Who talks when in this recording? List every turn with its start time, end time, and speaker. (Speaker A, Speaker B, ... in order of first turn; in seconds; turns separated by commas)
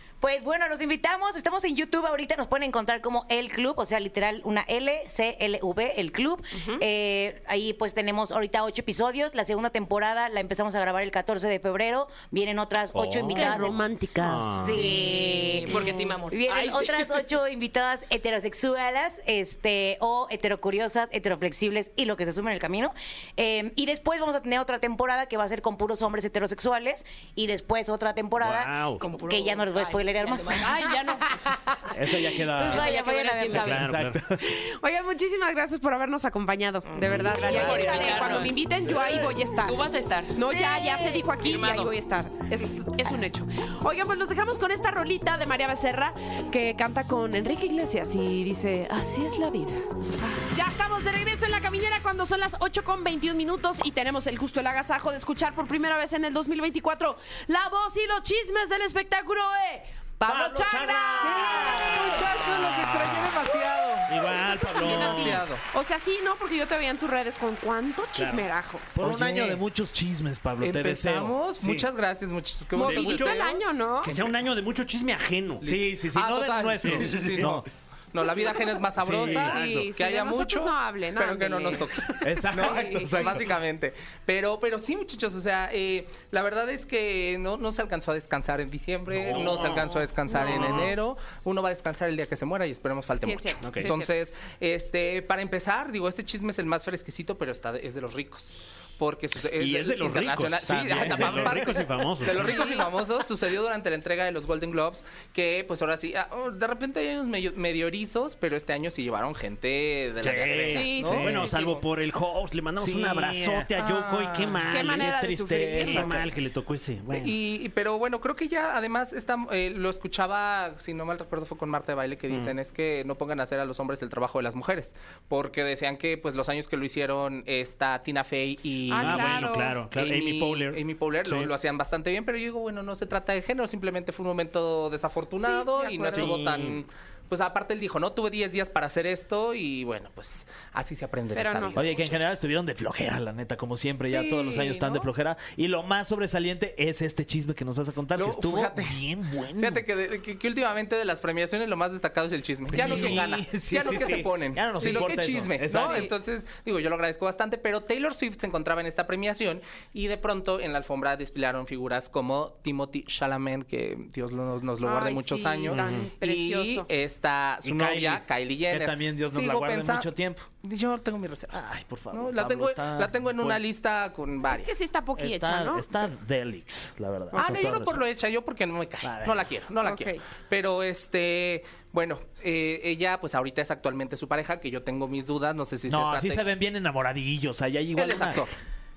Speaker A: 0.2-13.8, Speaker B: 6.5-6.8, Speaker C: 12.9-14.8, Speaker D: 13.3-14.9, Speaker A: 14.6-31.0, Speaker B: 14.8-17.1, Speaker C: 28.4-29.0, Speaker B: 29.0-31.4, Speaker E: 31.9-32.9, Speaker A: 32.6-33.8, Speaker B: 32.6-33.9, Speaker C: 33.5-34.2, Speaker E: 33.5-34.4, Speaker D: 34.4-39.8, Speaker B: 36.9-41.9, Speaker A: 37.5-38.1, Speaker D: 40.3-62.1, Speaker E: 60.2-65.5, Speaker F: 61.7-64.1, Speaker D: 64.5-68.9, Speaker F: 64.8-65.6, Speaker C: 68.2-68.4, Speaker E: 68.9-71.8, Speaker C: 69.0-69.4, Speaker F: 70.6-74.2, Speaker D: 72.8-74.1, Speaker C: 72.8-73.4, Speaker C: 74.0-75.6, Speaker E: 75.6-77.7, Speaker F: 75.6-111.8, Speaker C: 76.8-77.6, Speaker D: 78.4-83.4, Speaker E: 79.0-79.7, Speaker C: 79.2-79.5, Speaker E: 82.2-83.5, Speaker E: 89.1-89.8, Speaker C: 89.2-90.9, Speaker D: 90.3-90.7, Speaker E: 90.5-90.9, Speaker D: 93.2-94.1, Speaker C: 93.6-93.9, Speaker C: 99.6-102.6, Speaker E: 100.7-101.7, Speaker D: 102.3-102.9, Speaker E: 110.2-111.5, Speaker C: 110.2-115.2, Speaker D: 110.7-111.5, Speaker E: 112.8-113.7, Speaker F: 113.8-114.6, Speaker D: 114.7-116.1, Speaker E: 114.8-116.3, Speaker C: 115.8-117.3, Speaker F: 117.1-142.2, Speaker C: 122.3-122.5, Speaker D: 128.9-129.8, Speaker C: 129.0-131.5, Speaker D: 135.4-136.3, Speaker C: 136.1-136.8, Speaker D: 141.3-141.9, Speaker E: 141.7-149.8, Speaker F: 144.1-145.0, Speaker D: 144.6-144.8, Speaker F: 148.1-149.0, Speaker F: 149.6-174.7, Speaker E: 152.7-156.1, Speaker D: 155.8-156.1, Speaker D: 164.8-166.9, Speaker C: 165.7-166.1, Speaker E: 167.6-170.4, Speaker E: 171.5-173.6, Speaker D: 174.4-176.1, Speaker E: 175.2-178.0, Speaker D: 177.3-177.7, Speaker F: 177.3-186.4, Speaker E: 179.0-179.5, Speaker D: 179.8-180.2, Speaker E: 185.9-188.5, Speaker F: 187.9-188.5